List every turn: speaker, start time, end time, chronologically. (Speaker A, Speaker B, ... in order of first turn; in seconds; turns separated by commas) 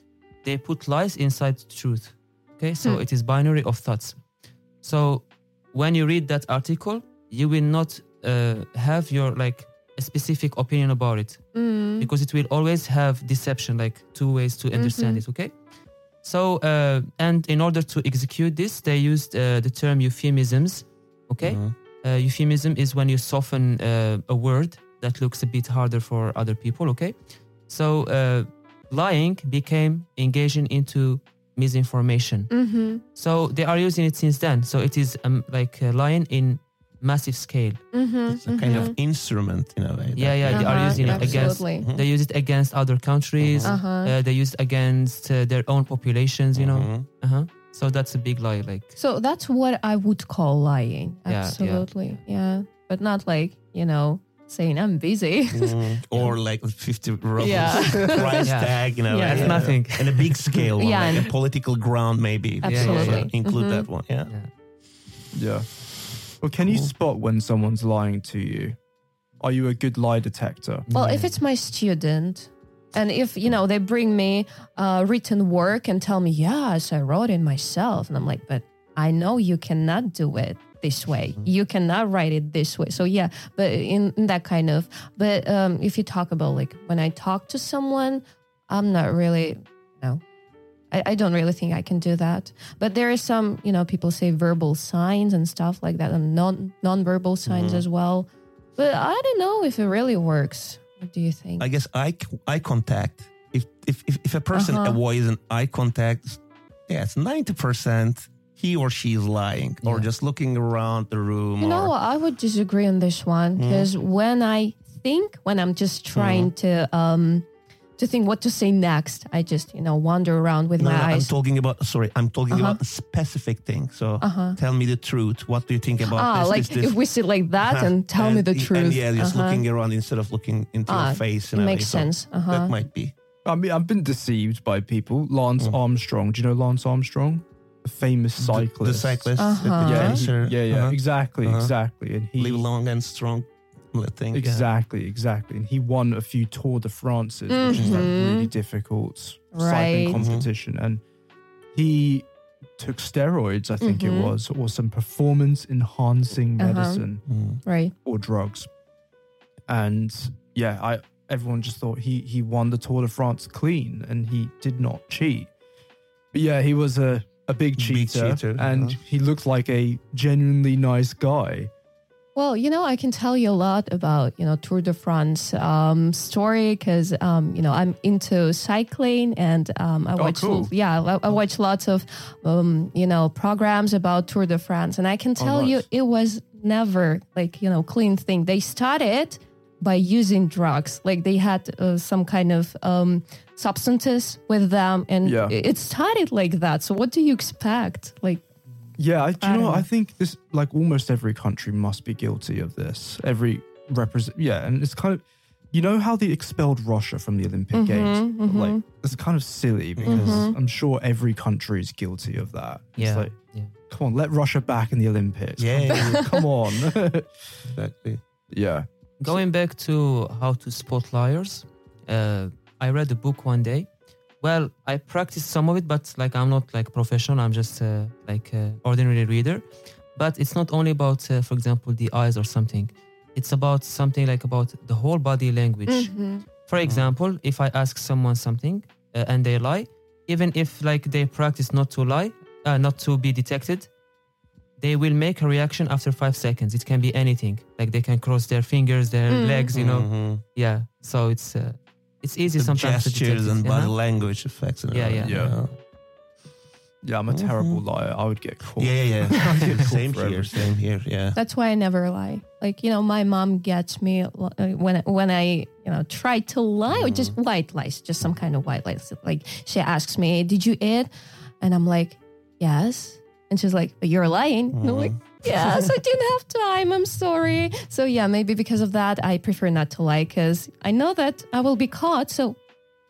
Speaker A: 0.4-4.2, Speaker A: 4.8-15.5, Speaker B: 11.5-12.1, Speaker B: 14.8-15.2, Speaker A: 16.2-32.5, Speaker C: 21.4-21.7, Speaker B: 32.5-33.0, Speaker A: 33.1-37.9, Speaker B: 37.9-39.0, Speaker C: 38.3-42.1, Speaker A: 38.6-38.9, Speaker A: 40.2-49.0, Speaker B: 40.5-41.9, Speaker C: 43.4-43.8, Speaker B: 43.6-44.1, Speaker C: 46.5-47.1, Speaker B: 49.0-56.3, Speaker A: 51.3-52.2, Speaker C: 55.5-64.3, Speaker B: 57.4-59.8, Speaker A: 58.4-60.7, Speaker B: 60.8-61.3, Speaker B: 62.6-63.9, Speaker A: 62.6-63.3, Speaker D: 65.3-65.7, Speaker D: 66.4-68.8, Speaker D: 69.4-70.9, Speaker A: 70.9-71.4, Speaker B: 70.9-90.2, Speaker B: 90.9-101.7, Speaker C: 97.5-97.9, Speaker C: 101.6-111.9, Speaker B: 104.5-105.0, Speaker A: 109.8-110.1, Speaker B: 111.6-121.3, Speaker C: 113.6-113.9, Speaker C: 116.2-116.5, Speaker C: 120.8-127.0, Speaker B: 122.5-122.8, Speaker B: 124.2-124.6, Speaker B: 126.1-129.6, Speaker C: 127.6-133.1, Speaker B: 130.9-132.7, Speaker D: 133.4-139.3, Speaker C: 138.4-141.7, Speaker B: 139.4-140.2, Speaker D: 139.8-142.7, Speaker C: 142.4-144.7, Speaker D: 144.3-151.0, Speaker B: 147.5-148.5, Speaker C: 147.7-148.1, Speaker B: 149.5-150.2, Speaker C: 150.1-150.5, Speaker D: 151.7-152.3, Speaker D: 152.8-157.2, Speaker B: 153.8-154.3, Speaker B: 156.6-157.0, Speaker C: 157.3-157.6, Speaker B: 157.7-157.9, Speaker D: 158.1-158.7, Speaker D: 159.7-165.5, Speaker D: 166.3-171.7, Speaker C: 167.8-169.0, Speaker B: 172.4-198.4, Speaker D: 180.2-180.7, Speaker D: 185.4-185.9, Speaker D: 195.2-195.6, Speaker D: 199.0-213.4, Speaker B: 199.4-199.9, Speaker B: 207.7-208.8, Speaker C: 210.0-210.5, Speaker B: 210.1-210.6, Speaker A: 213.0-213.7, Speaker D: 213.9-217.6, Speaker C: 215.6-216.4, Speaker B: 215.9-216.4, Speaker C: 217.8-218.2, Speaker D: 218.5-218.9, Speaker A: 219.2-236.1, Speaker B: 235.9-236.4, Speaker A: 236.6-243.9, Speaker A: 244.8-253.9, Speaker B: 249.3-249.7, Speaker C: 249.7-250.4, Speaker C: 252.6-255.7, Speaker A: 254.9-255.6, Speaker D: 255.2-255.6, Speaker D: 257.0-260.7, Speaker C: 257.3-257.8, Speaker C: 258.8-261.4, Speaker B: 261.4-282.6, Speaker C: 266.9-267.4, Speaker C: 274.8-275.7